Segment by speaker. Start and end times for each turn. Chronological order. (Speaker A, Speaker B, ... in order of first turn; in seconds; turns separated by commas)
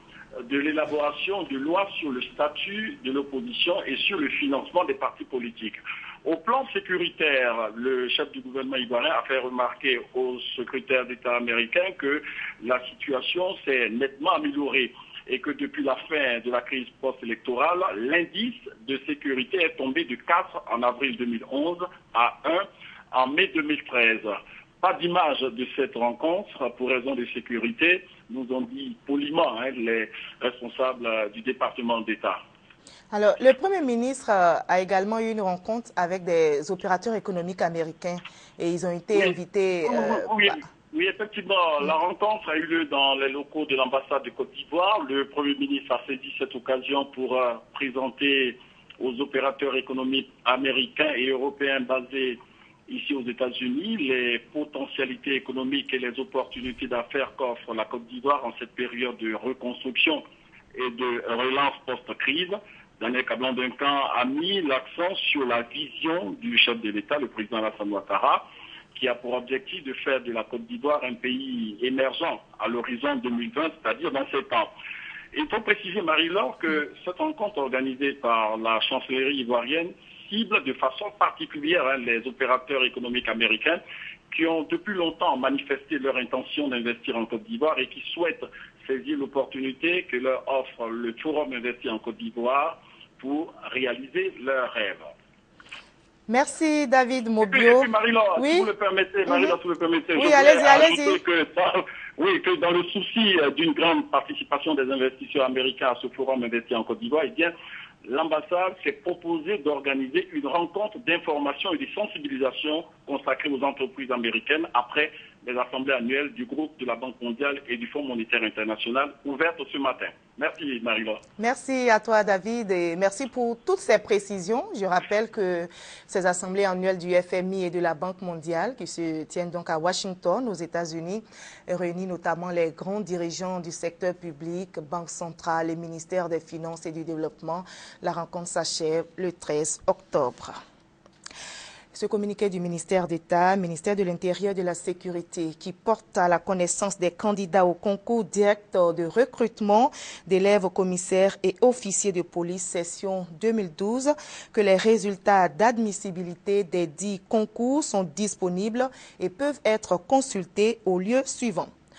Speaker A: 0.4-32.4, Speaker B: 33.1-40.3, Speaker A: 39.1-60.2, Speaker A: 60.7-68.4, Speaker A: 68.9-74.7, Speaker A: 75.3-95.1, Speaker B: 96.3-98.7, Speaker A: 97.4-107.5, Speaker B: 99.3-99.5, Speaker B: 100.2-101.2, Speaker A: 108.1-121.2, Speaker B: 121.4-140.6, Speaker B: 141.9-161.7